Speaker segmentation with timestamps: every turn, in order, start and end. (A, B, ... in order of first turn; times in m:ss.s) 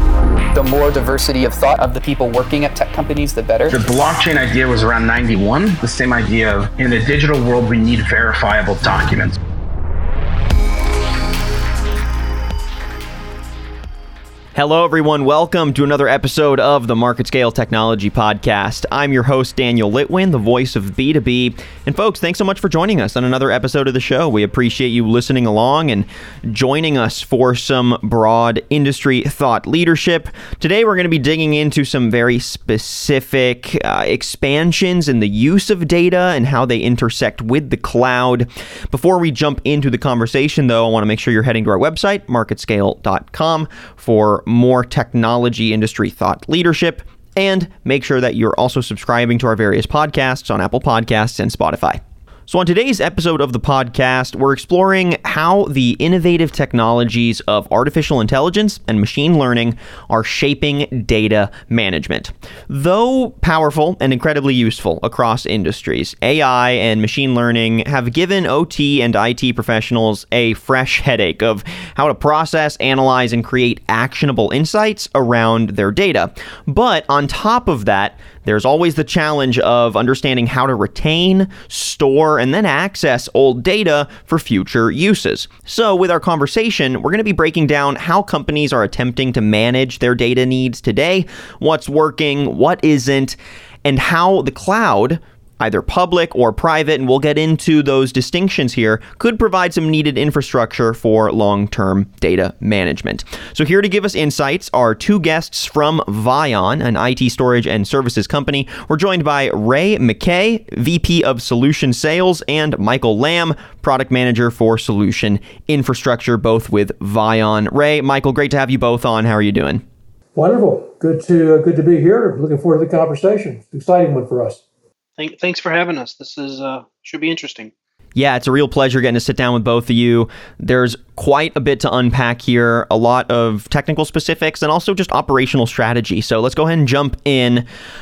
0:00.5-0:03.8 A
0:03.7-0:09.4 B
0:14.6-1:59.8 C
2:00.4-2:04.6 D
2:05.2-2:07.7 E
2:08.2-2:17.6 C